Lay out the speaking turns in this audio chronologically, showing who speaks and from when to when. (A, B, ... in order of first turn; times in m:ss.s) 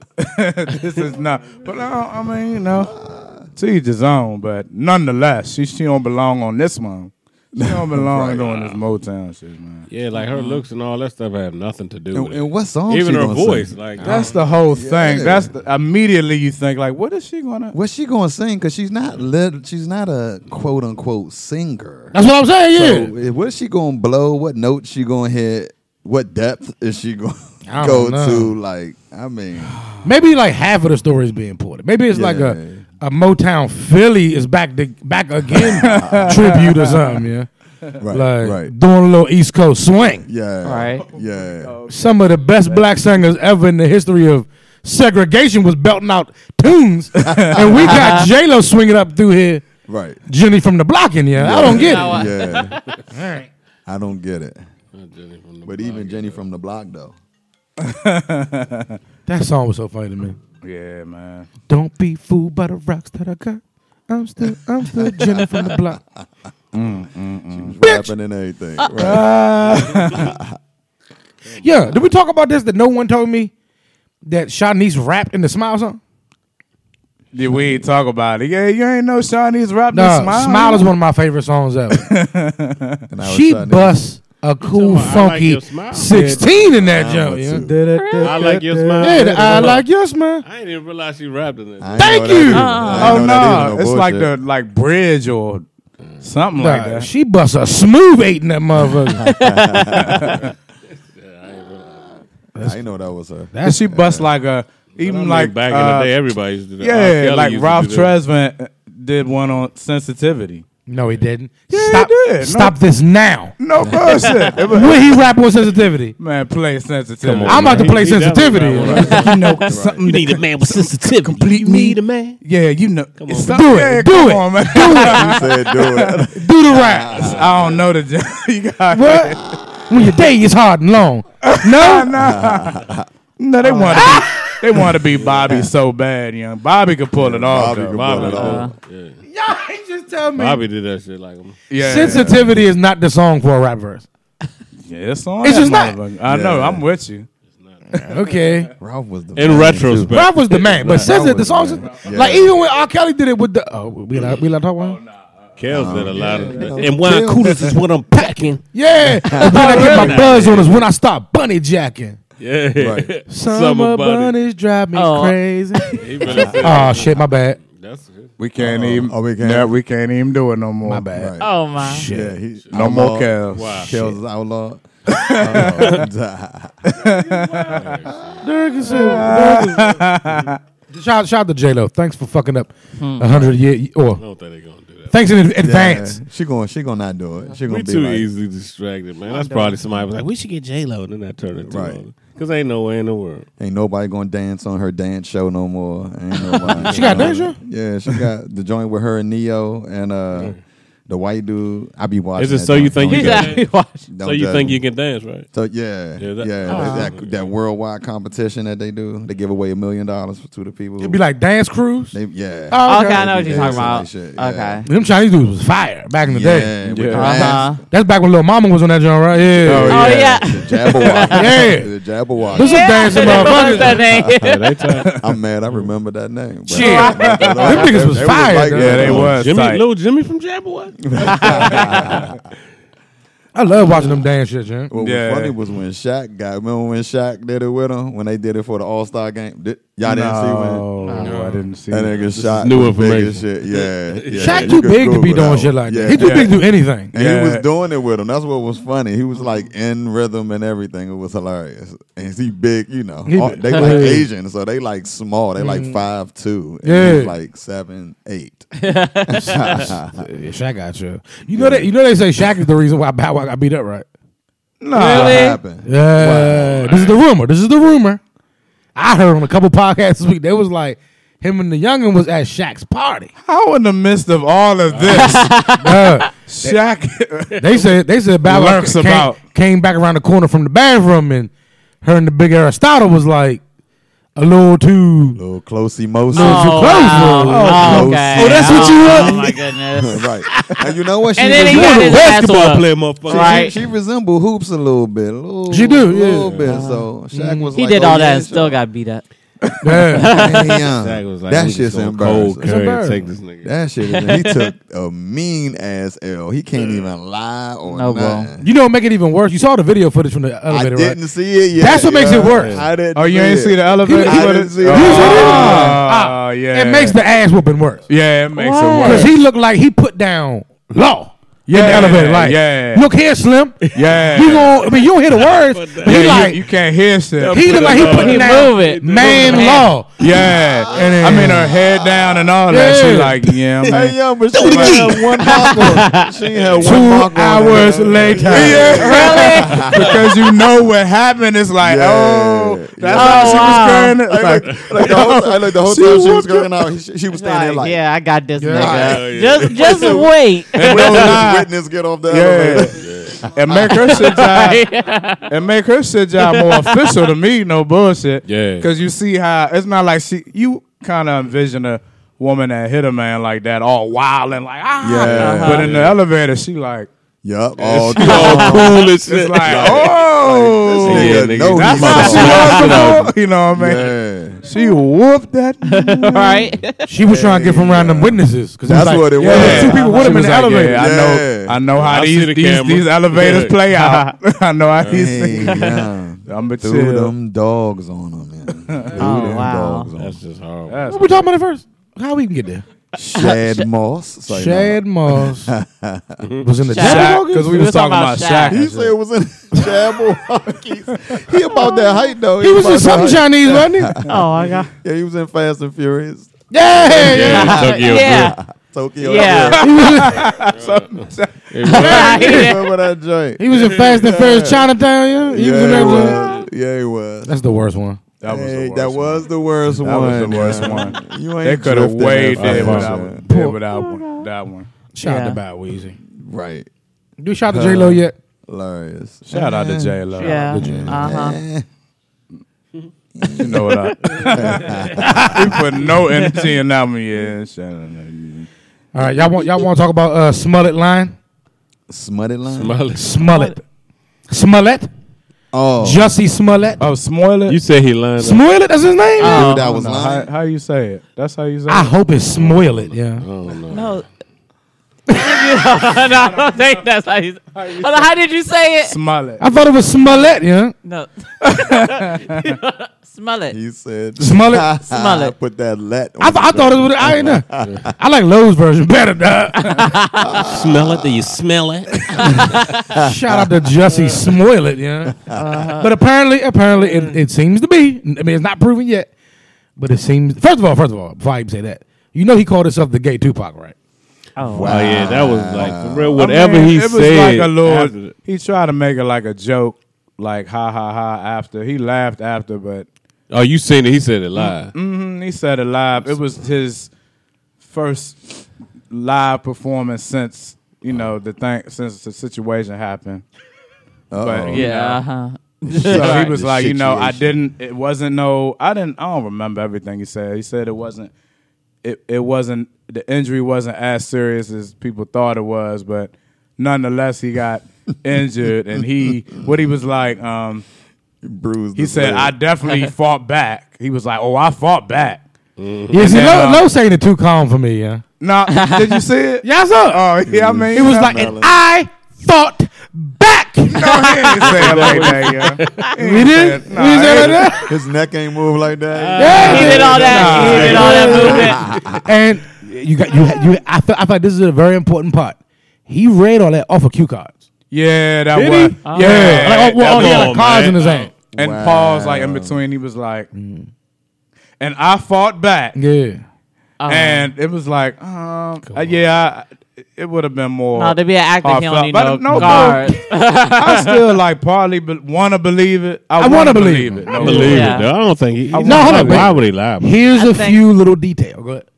0:00.2-0:02.9 A
0:02.8-0:03.5 B
0:03.6-0:09.8 A
0:07.5-0:08.5 B
0:08.4-0:08.7 C
0:09.9-0:14.4 C
0:10.1-0:10.6 D
0:12.1-0:14.1 B
0:14.0-0:17.8 A
0:14.7-0:15.5 B
0:17.7-0:22.2 B
0:22.1-0:23.1 E
0:22.7-0:29.8 B
0:27.7-0:28.5 E
0:30.0-0:37.5 E
0:32.1-0:32.8 B
0:35.5-0:36.6 B
0:35.8-0:37.2 A
0:38.0-0:38.7 B
0:38.0-0:40.2 E
0:40.2-0:41.8 B
0:40.6-0:41.0 D
0:41.1-0:43.0 A
0:41.9-0:49.6 E
0:47.2-0:47.6 A
0:47.7-0:48.3 D
0:49.9-0:50.2 B
0:50.3-0:52.3 E
0:51.4-0:52.8 B
0:51.6-0:53.0 D
0:53.1-0:53.5 E
0:53.8-0:54.6 B
0:54.9-0:56.4 C
0:55.6-0:57.2 B
0:57.8-0:59.0 A
0:59.3-1:00.4 E
1:00.6-1:01.5 A
1:01.7-1:06.0 E
1:04.8-1:06.0 B
1:06.7-1:07.8 A
1:07.5-1:09.4 B
1:07.8-1:08.1 E
1:09.0-1:10.3 A
1:10.1-1:10.5 B
1:11.6-1:13.5 E
1:14.2-1:16.0 E
1:17.3-1:20.9 A
1:17.4-1:17.8 B
1:19.9-1:22.1 E
1:21.9-1:23.0 A
1:23.1-1:24.0 B
1:23.2-1:27.6 E
1:24.6-1:26.5 C
1:26.1-1:26.4 A
1:26.2-1:27.8 B
1:27.6-1:29.8 A
1:27.9-1:28.4 D
1:28.2-1:29.8 C
1:29.0-1:30.4 E
1:30.4-1:33.3 C
1:31.8-1:34.3 B
1:32.0-1:32.7 E
1:32.5-1:33.3 D
1:32.9-1:35.6 A
1:36.2-1:37.1 A
1:36.5-1:39.3 E
1:39.2-1:40.4 B
1:39.9-1:40.5 A
1:40.1-1:42.2 C
1:42.6-1:42.8 E
1:42.6-1:44.3 B
1:43.5-1:43.9 E
1:43.6-1:46.2 A
1:45.0-1:48.1 C
1:46.8-1:50.6 A
1:50.9-1:53.5 E
1:51.7-1:52.8 A
1:53.6-1:55.2 A
1:53.8-1:54.4 B
1:54.2-1:54.6 D
1:54.7-1:56.2 E
1:56.2-1:58.0 A
1:57.2-2:02.4 C
1:57.4-1:59.2 E
1:58.7-2:00.1 B
1:58.9-2:06.2 A
1:59.2-1:59.7 D
2:01.2-2:02.0 E
2:03.2-2:03.8 C
2:03.4-2:05.4 E
2:04.9-2:07.8 B
2:06.3-2:07.2 E
2:07.1-2:09.6 A
2:07.1-2:07.7 C
2:08.9-2:12.1 E
2:11.4-2:12.8 A
2:12.1-2:13.0 B
2:13.4-2:18.4 A
2:13.6-2:14.8 E
2:15.2-2:15.6 C
2:17.2-2:18.7 B
2:17.8-2:19.2 C
2:18.3-2:18.7 D
2:19.2-2:20.6 E
2:20.3-2:21.6 C
2:21.7-2:22.4 A
2:21.7-2:24.1 E
2:22.0-2:22.5 B
2:24.8-2:27.3 A
2:25.4-2:26.0 E
2:26.2-2:26.8 B
2:27.9-2:28.7 E
2:28.8-2:30.2 B
2:29.3-2:31.8 C
2:30.1-2:35.0 E
2:31.1-2:32.5 B
2:34.8-2:36.8 A
2:35.6-2:38.6 C
2:35.7-2:37.8 B
2:37.0-2:42.2 E
2:39.0-2:39.8 B
2:39.3-2:40.9 C
2:39.4-2:40.3 D
2:42.4-2:44.3 C
2:42.8-2:43.1 B
2:43.3-2:46.0 E
2:44.9-2:46.5 D
2:46.0-2:48.3 C
2:46.5-2:47.6 E
2:48.4-2:51.1 A
2:48.6-2:49.7 B
2:50.8-2:52.4 E
2:51.1-2:51.5 B
2:51.4-2:52.1 D
2:52.0-2:57.0 B
2:52.7-2:54.1 A
2:53.5-2:54.0 C
2:55.1-2:56.0 A
2:55.7-2:56.0 C
2:57.0-2:58.0 A
2:57.4-2:58.2 C
2:58.0-2:58.5 B
2:58.4-2:59.9 E
2:58.9-3:00.6 A
2:59.2-2:59.5 C
3:00.9-3:04.2 E
3:03.0-3:03.3 D
3:04.2-3:05.2 C
3:05.1-3:06.2 E
3:05.6-3:08.3 B
3:07.6-3:13.5 C
3:09.2-3:09.8 D
3:11.7-3:12.0 B
3:13.6-3:20.6 B
3:16.4-3:17.5 C
3:16.8-3:17.6 E
3:21.1-3:24.8 B
3:22.4-3:23.7 C
3:23.1-3:24.1 D
3:24.2-3:25.5 C
3:25.5-3:31.2 B
3:26.2-3:27.4 C
3:26.7-3:27.1 D
3:26.7-3:27.0 E
3:31.0-3:32.2 E
3:32.1-3:34.8 B
3:32.7-3:33.8 E
3:32.8-3:34.8 D
3:34.8-3:40.1 E
3:36.2-3:37.7 B
3:36.8-3:37.5 A
3:37.1-3:37.8 D
3:39.6-3:40.4 A
3:39.8-3:44.3 B
3:39.9-3:41.6 D
3:40.9-3:41.2 A
3:41.3-3:41.9 E
3:42.5-3:44.0 E
3:42.6-3:45.0 D
3:44.4-3:45.1 C
3:45.1-3:49.4 B
3:46.7-3:49.2 E
3:46.7-3:47.9 D
3:47.0-3:47.8 A
3:48.7-3:49.8 A
3:48.9-3:52.2 C
3:51.0-3:52.3 B
3:51.2-3:52.2 D
3:53.5-3:54.9 E
3:54.9-4:00.9 B
3:54.9-3:55.5 A
4:00.0-4:02.2 A
4:01.0-4:01.4 D
4:01.1-4:01.6 C
4:01.9-4:06.6 B
4:02.2-4:04.8 C
4:04.3-4:07.1 E
4:06.1-4:06.6 A
4:07.1-4:18.7 B
4:07.1-4:07.6 A
4:13.2-4:14.3 E
4:15.6-4:16.0 E
4:16.8-4:17.3 E
4:18.8-4:19.9 D
4:19.3-4:20.2 B
4:19.5-4:24.1 E
4:21.5-4:21.9 B
4:24.8-4:25.5 A
4:24.9-4:25.6 D
4:25.0-4:27.0 B
4:25.8-4:28.2 E
4:28.9-4:33.3 E
4:33.4-4:35.5 A
4:34.9-4:35.3 C
4:35.1-4:36.2 D
4:35.7-4:36.8 E
4:36.5-4:37.8 A
4:37.6-4:41.5 E
4:38.4-4:39.4 A
4:42.0-4:43.6 E
4:44.4-4:45.4 E
4:45.4-4:52.2 B
4:46.3-4:49.6 E
4:46.3-4:50.4 D
4:47.4-4:48.2 A
4:51.4-4:53.7 D
4:51.4-4:52.8 E
4:51.9-4:53.7 C
4:53.2-4:58.8 B
4:55.7-4:56.6 E
4:56.6-4:57.1 D
4:57.3-4:57.7 E
4:57.7-4:59.2 D
4:59.8-5:00.4 E
4:59.9-5:00.9 D
5:00.2-5:02.7 B
5:00.9-5:03.8 C
5:02.6-5:03.3 E
5:03.6-5:08.7 B
5:04.0-5:04.7 D
5:07.9-5:08.5 D
5:08.6-5:11.2 E
5:10.7-5:16.0 B
5:11.8-5:12.8 E
5:12.6-5:12.9 C
5:13.1-5:17.2 A
5:14.0-5:18.0 E
5:18.1-5:19.3 A
5:18.5-5:19.3 D
5:19.0-5:26.6 E
5:21.7-5:23.1 A
5:23.8-5:24.1 C
5:23.9-5:24.8 A
5:24.8-5:26.6 C
5:26.0-5:28.1 A
5:27.4-5:29.8 C
5:27.5-5:30.2 E
5:27.9-5:29.9 D
5:30.2-5:35.0 A
5:30.2-5:32.6 B
5:30.9-5:31.7 E
5:32.7-5:33.6 E
5:33.9-5:40.3 B
5:34.5-5:35.7 E
5:35.4-5:36.3 D
5:36.8-5:39.6 E
5:38.2-5:46.8 A
5:38.9-5:40.1 D
5:39.8-5:40.2 C
5:41.8-5:48.0 B
5:43.1-5:44.2 D
5:47.3-5:51.4 D
5:48.6-5:49.0 E
5:48.7-5:54.4 B
5:48.9-5:50.2 C
5:50.7-5:51.7 A
5:52.3-5:54.8 A
5:53.0-5:53.5 C
5:53.7-5:55.5 D
5:55.5-6:07.1 A
5:56.4-5:57.1 D
5:58.4-5:58.9 C
6:05.0-6:06.0 B
6:05.2-6:06.2 C
6:05.3-6:06.0 D
6:07.4-6:09.1 B
6:07.8-6:10.2 C
6:08.2-6:16.7 A
6:08.2-6:08.6 D
6:09.6-6:13.0 B
6:11.0-6:13.3 C
6:12.0-6:13.0 E
6:12.4-6:12.9 D
6:13.7-6:14.6 B
6:15.8-6:17.0 D
6:17.0-6:21.0 E
6:17.2-6:20.0 B
6:19.4-6:27.3 A
6:19.5-6:20.3 D
6:20.9-6:21.8 B
6:21.9-6:23.8 C
6:23.9-6:24.3 D
6:25.0-6:25.5 C
6:25.1-6:30.4 B
6:25.6-6:26.0 D
6:28.9-6:29.3 A
6:29.2-6:30.1 D
6:30.2-6:31.2 C
6:30.9-6:31.4 A
6:31.1-6:32.8 E
6:33.1-6:36.4 B
6:33.4-6:33.8 D
6:34.5-6:35.7 E
6:36.4-6:36.7 C
6:36.6-6:37.8 E
6:36.9-6:38.8 D
6:37.0-6:39.1 A
6:38.7-6:50.4 B
6:41.1-6:41.4 A
6:41.8-6:42.3 D
6:42.6-6:44.2 E
6:44.3-6:44.9 D
6:46.7-6:47.8 E
6:47.2-6:48.6 C
6:47.4-6:48.6 D
6:49.2-6:49.9 D
6:49.5-6:52.4 A
6:49.8-6:50.5 E
6:50.5-6:52.6 C
6:51.8-6:52.9 D
6:52.0-6:52.7 E
6:52.2-6:54.9 B
6:53.6-6:56.5 E
6:53.7-6:54.5 C
6:55.5-6:57.6 B
6:57.4-6:58.2 E
6:58.4-7:04.9 A
6:58.4-7:03.4 B
7:02.5-7:03.2 C
7:03.4-7:03.8 E
7:03.9-7:04.5 D
7:05.1-7:06.2 E
7:05.2-7:05.6 D
7:06.3-7:06.9 B
7:07.4-7:08.3 E
7:07.7-7:11.8 B
7:09.5-7:10.7 A
7:10.4-7:11.6 D
7:10.4-7:11.4 E
7:13.4-7:15.8 B
7:13.5-7:18.7 A
7:14.2-7:15.5 C
7:15.2-7:15.5 E
7:19.1-7:21.3 E
7:22.1-7:23.0 B
7:22.7-7:23.4 C
7:23.1-7:23.8 E
7:23.4-7:23.8 D
7:24.5-7:25.1 E
7:25.7-7:26.3 B
7:26.0-7:27.0 E
7:27.0-7:27.8 A
7:27.7-7:28.6 C
7:28.4-7:29.6 E
7:29.4-7:30.5 B
7:29.4-7:29.9 D
7:29.7-7:32.1 A
7:31.9-7:33.4 E
7:32.5-7:34.2 C
7:33.9-7:34.2 D
7:35.3-7:39.2 D
7:38.0-7:38.3 A
7:39.0-7:39.7 A
7:39.6-7:40.9 E
7:40.2-7:43.8 D
7:41.6-7:42.7 A
7:43.7-7:48.1 B
7:44.4-7:44.9 E
7:45.0-7:45.5 D
7:46.4-7:50.1 E
7:49.8-7:50.6 D
7:50.4-7:51.6 B
7:50.6-7:52.6 C
7:52.3-7:53.7 B
7:52.3-7:53.0 D
7:53.2-7:55.4 E
7:55.2-7:55.9 B
7:55.5-7:56.1 D
7:56.0-7:59.3 E
7:57.0-7:57.4 C
8:00.0-8:03.9 E
8:04.6-8:05.5 D
8:04.6-8:06.4 B
8:04.8-8:08.3 C
8:06.4-8:13.1 A
8:13.5-8:14.9 C
8:14.9-8:17.1 A
8:17.8-8:23.4 A
8:24.3-8:24.9 B
8:24.4-8:25.2 A
8:24.7-8:26.5 D
8:25.9-8:27.6 B
8:26.0-8:31.3 A
8:32.0-8:40.8 A
8:41.4-8:42.5 B
8:41.9-8:45.4 A
8:45.8-8:46.5 C
8:46.1-8:48.2 E
8:46.1-8:46.9 A
8:48.4-8:51.5 A
8:48.7-8:49.2 D
8:49.6-8:50.2 E
8:50.4-8:51.8 B
8:50.9-8:55.3 E
8:53.9-8:57.8 A
8:54.2-8:54.7 D
8:54.6-8:56.1 C
8:56.2-8:57.9 E
8:57.8-9:02.2 B
8:59.1-9:01.8 C
8:59.4-9:07.5 E
8:59.5-9:01.8 D
8:59.6-9:01.7 A
9:07.9-9:10.6 A
9:08.5-9:11.3 C
9:09.0-9:09.7 D
9:09.1-9:11.3 E
9:11.5-9:12.8 B
9:11.5-9:13.5 A
9:13.5-9:13.9 E
9:14.8-9:16.0 A
9:15.9-9:16.4 E
9:17.0-9:17.5 D
9:17.1-9:23.2 A
9:18.8-9:19.2 C
9:20.9-9:24.2 D
9:22.5-9:23.0 E
9:23.7-9:28.0 A
9:26.4-9:27.9 E
9:27.3-9:30.2 C
9:27.5-9:28.1 D
9:28.7-9:29.5 A
9:28.8-9:31.8 E
9:30.3-9:30.8 D